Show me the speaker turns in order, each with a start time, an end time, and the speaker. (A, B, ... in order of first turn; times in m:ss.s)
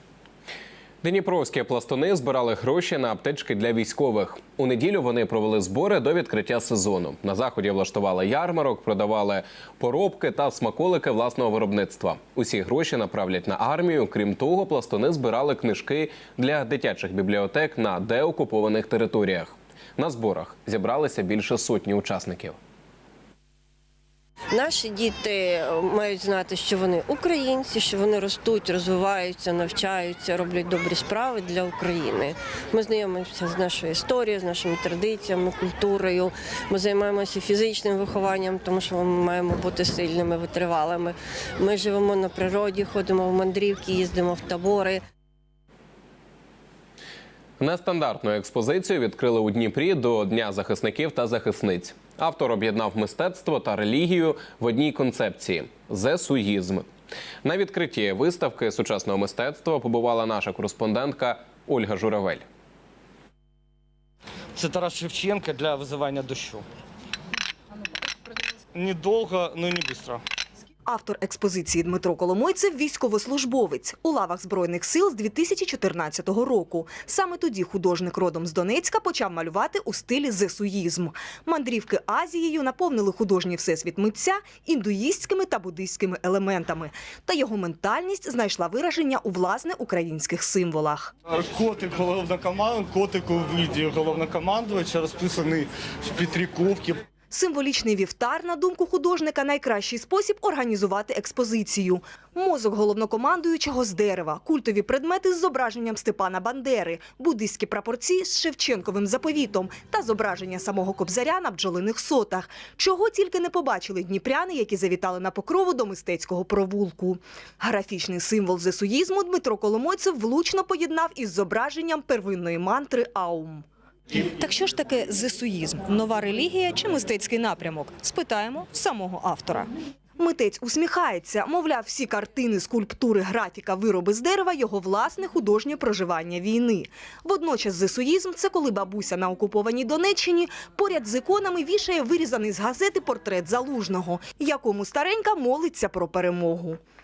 0:01.0-0:22.6 A
0:24.5-0:45.0 B
0:47.6-0:56.9 A
0:57.4-1:02.4 A
1:04.6-1:06.6 C
1:08.7-1:10.2 C
1:10.8-1:31.1 D
1:31.3-1:37.0 C
1:37.3-2:26.8 D